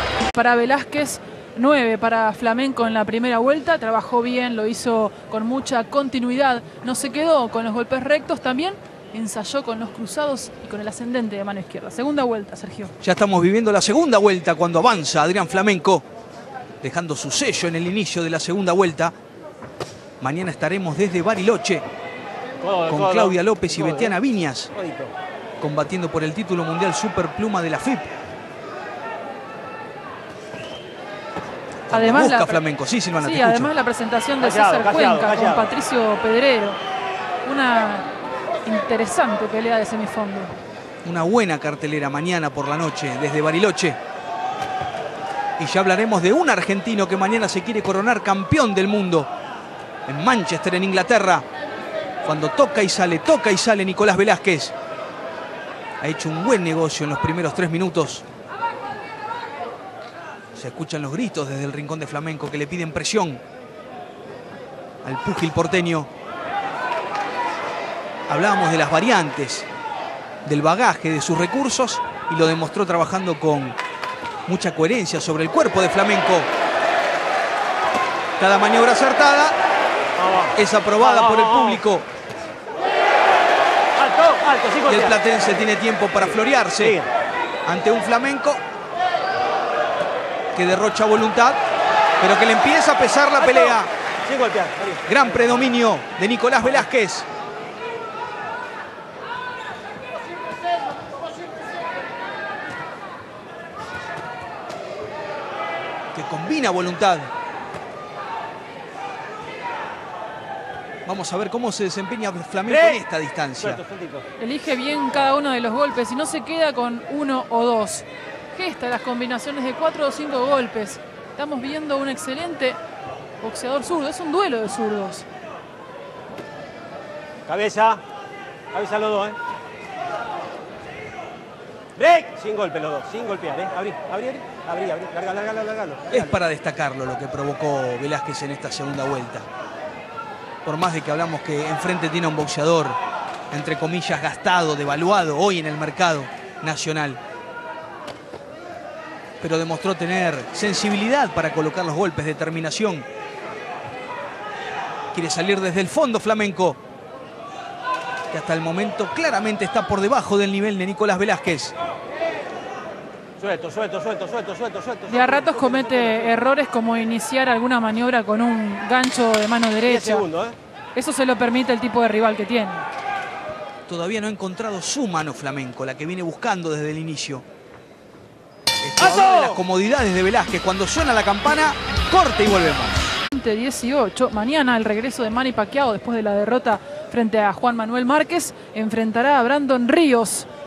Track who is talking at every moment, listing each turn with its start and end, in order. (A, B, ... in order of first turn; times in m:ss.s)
0:00.3-0:12.9 A
0:13.0-0:16.0 B
0:16.8-0:19.1 B
0:20.2-0:21.8 B
0:22.6-0:24.1 C
0:22.9-0:24.7 B
0:24.7-0:25.1 C
0:25.6-0:28.1 B
0:31.9-0:33.7 B
0:31.9-0:32.6 A
0:33.2-0:36.8 A
0:34.4-0:35.7 C
0:37.4-0:38.1 A
0:38.6-0:40.5 A
0:41.0-0:44.0 B
0:45.6-0:49.3 B
0:50.1-0:51.4 B
0:52.2-0:54.7 B
0:56.0-0:58.2 B
1:00.6-1:03.4 B
1:05.0-1:06.1 B
1:08.3-1:09.7 B
1:10.4-1:13.8 B
1:14.5-1:16.5 B
1:18.4-1:19.6 B
1:20.2-1:21.8 C
1:20.6-1:22.1 B
1:24.0-1:25.3 C
1:24.9-1:27.0 B
1:26.1-1:27.1 C
1:27.6-1:28.6 B
1:30.6-1:31.6 B
1:32.2-1:33.9 B
1:33.4-1:35.7 C
1:35.1-1:37.2 B
1:46.1-1:47.3 B
1:51.0-1:53.8 B
1:52.7-1:53.0 C
1:53.6-1:54.2 C
1:54.4-2:02.8 A
2:03.4-2:05.2 A
2:07.5-2:08.0 C
2:08.7-2:09.4 C
2:12.0-2:16.4 C
2:16.1-2:19.5 B
2:20.6-2:23.0 B
2:23.5-2:27.2 B
2:29.4-2:33.1 B
2:35.1-2:36.8 B
2:38.3-2:41.7 B
2:43.4-2:46.4 C
2:45.1-2:50.2 A
2:49.9-2:50.6 C
2:51.0-2:52.9 A
2:53.9-2:57.4 B
2:58.8-3:03.2 B
2:59.0-2:59.6 C
3:03.3-3:10.5 A